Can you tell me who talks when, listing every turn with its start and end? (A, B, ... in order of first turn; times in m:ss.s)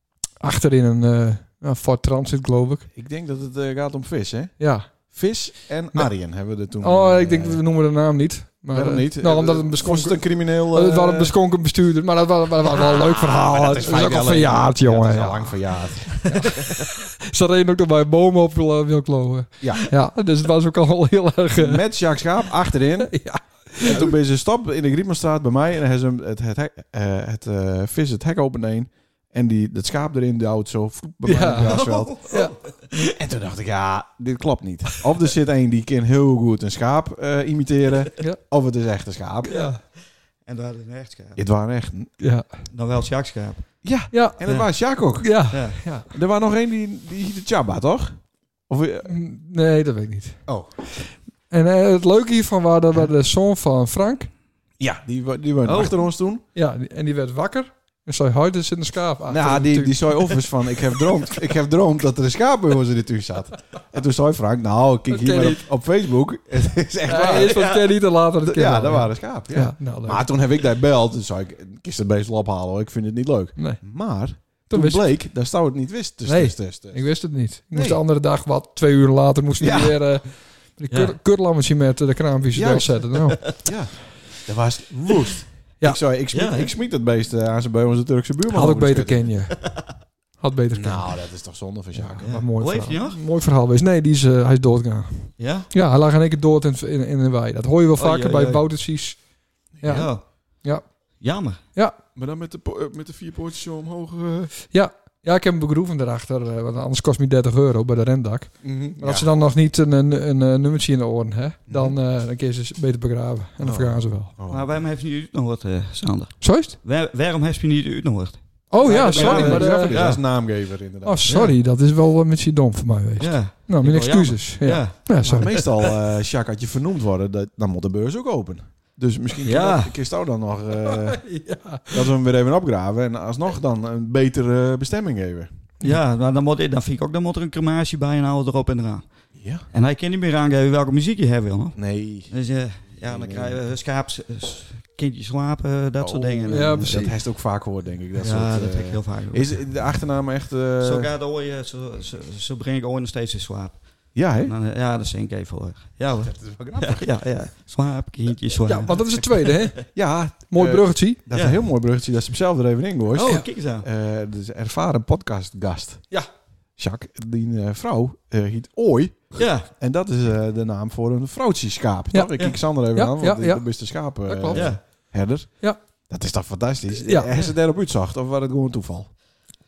0:00.4-0:02.9 A
0:02.9-0:07.6 B
0:04.6-0:05.1 A
0:06.8-0:15.6 A
0:08.7-0:11.3 B
0:13.2-0:16.6 B
0:16.3-0:21.8 A
0:19.6-0:19.9 B
0:21.5-0:23.2 B
0:23.0-0:24.1 A
0:23.8-0:32.2 B
0:31.2-0:32.5 A
0:31.6-0:33.0 C
0:33.1-0:39.7 B
0:39.5-0:39.8 A
0:39.5-0:41.4 C
0:41.4-0:42.1 B
0:42.2-0:42.5 A
0:42.7-0:43.8 C
0:43.8-0:45.5 B
0:44.1-0:44.4 A
0:45.1-0:46.1 A
0:45.5-0:45.8 C
0:46.1-0:49.1 B
0:49.0-0:50.4 A
0:51.0-0:54.3 A
0:54.8-0:56.4 B
0:55.7-0:55.9 C
0:56.5-1:00.4 A
0:59.3-1:07.7 B
1:05.1-1:05.6 A
1:07.1-1:10.3 A
1:07.2-1:07.9 C
1:08.4-1:18.0 B
1:13.6-1:13.8 A
1:14.7-1:15.2 A
1:16.2-1:23.5 A
1:19.6-1:20.0 B
1:20.9-1:21.1 C
1:22.5-1:29.3 B
1:26.3-1:26.7 C
1:28.5-1:31.3 A
1:29.6-1:29.9 C
1:30.7-1:32.3 B
1:31.9-1:40.9 A
1:32.2-1:33.2 C
1:35.4-1:35.7 C
1:38.0-1:38.6 C
1:39.8-1:40.2 B
1:39.8-1:40.6 C
1:41.2-1:41.6 C
1:42.1-1:44.5 B
1:44.7-1:54.3 A
1:48.6-1:49.3 B
1:51.7-1:52.0 B
1:53.6-1:54.8 B
1:54.5-2:00.2 C
1:56.4-1:56.8 A
1:58.7-2:00.2 A
1:58.8-2:01.3 B
2:01.0-2:05.6 A
2:01.3-2:01.6 C
2:03.2-2:05.9 C
2:05.1-2:15.5 B
2:09.4-2:09.9 C
2:10.8-2:12.1 A
2:15.8-2:19.1 C
2:19.4-2:19.6 B
2:19.7-2:27.2 C
2:21.8-2:22.3 B
2:22.8-2:23.6 B
2:26.0-2:31.1 B
2:26.5-2:27.2 A
2:28.2-2:29.8 C
2:30.8-2:39.8 C
2:34.1-2:34.5 B
2:36.2-2:37.1 B
2:38.7-2:41.2 A
2:39.9-2:46.1 B
2:41.3-2:41.6 C
2:43.2-2:43.8 C
2:43.2-2:43.5 A
2:46.8-2:59.1 B
2:49.4-2:49.7 C
2:52.1-2:55.8 A
2:54.5-2:54.8 C
2:57.0-2:57.3 A